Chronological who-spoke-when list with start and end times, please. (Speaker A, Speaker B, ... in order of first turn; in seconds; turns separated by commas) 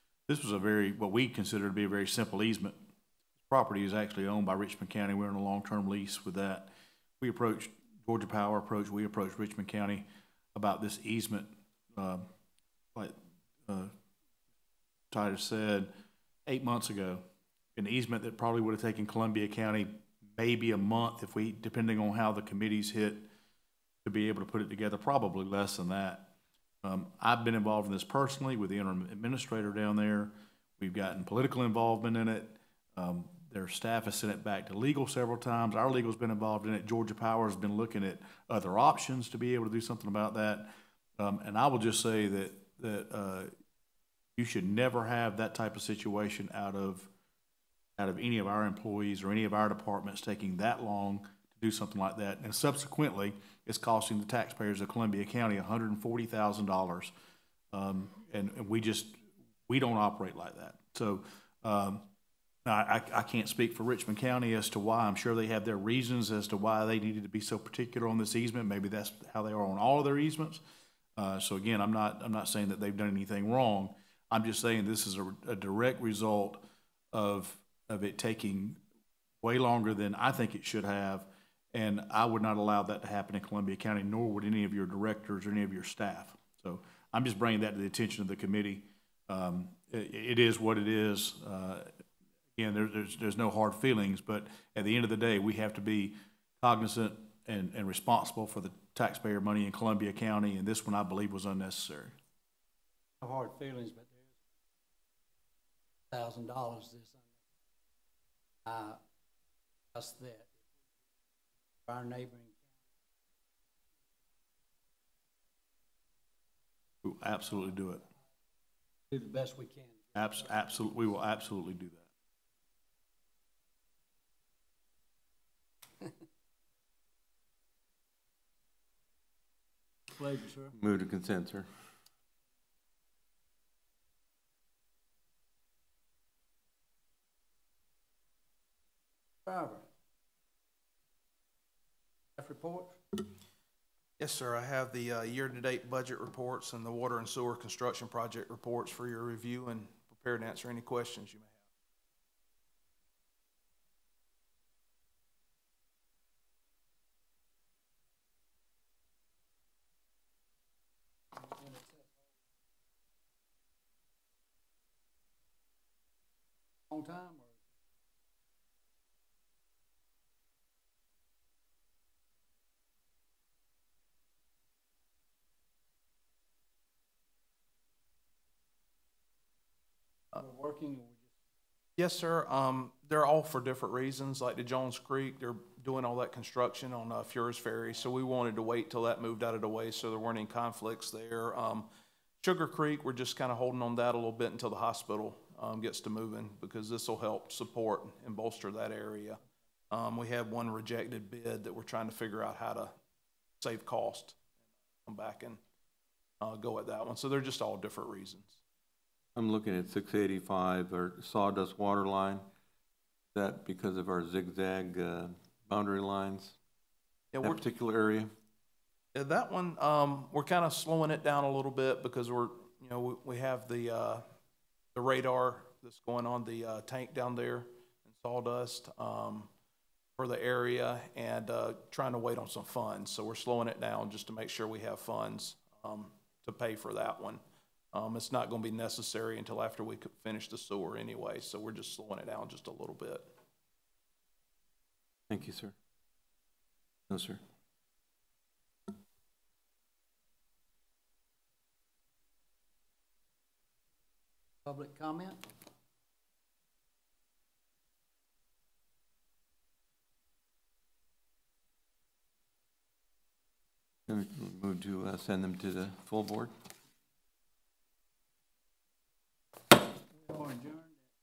Speaker A: 0.3-2.8, Speaker A: 3.5-12.2, Speaker A: 15.1-15.9, Speaker A: 16.5-17.2, Speaker A: 17.8-23.3, Speaker A: 24.1-43.5, Speaker A: 44.4-47.1, Speaker A: 48.0-57.1, Speaker A: 57.7-62.0, Speaker A: 62.7-70.6, Speaker A: 71.2-78.8, Speaker A: 79.4-91.9, Speaker A: 92.6-102.2, Speaker B: 103.2-104.2, Speaker B: 106.1-107.2, Speaker B: 108.7-109.0, Speaker B: 109.9-110.6, Speaker B: 111.9-112.6, Speaker A: 117.0-118.0, Speaker B: 119.1-120.9, Speaker A: 120.2-122.1, Speaker B: 130.2-130.8, Speaker C: 130.7-131.7, Speaker B: 139.5-139.9, Speaker B: 142.4-142.9, Speaker D: 144.2-151.6, Speaker B: 161.5-162.1, Speaker B: 166.9-167.6, Speaker B: 180.4-181.2, Speaker D: 182.0-191.9, Speaker D: 192.4-199.4, Speaker D: 199.9-202.9, Speaker D: 203.6-204.4, Speaker D: 205.1-205.6, Speaker D: 206.4-208.6, Speaker C: 209.3-212.4, Speaker C: 213.3-216.6, Speaker D: 217.3-217.6, Speaker C: 217.4-218.3, Speaker D: 219.2-224.2, Speaker D: 224.9-229.5, Speaker D: 230.2-237.4, Speaker D: 237.9-243.3, Speaker C: 245.3-245.8, Speaker C: 247.1-247.4, Speaker B: 254.7-255.4, Speaker C: 264.1-266.5, Speaker B: 270.2-271.0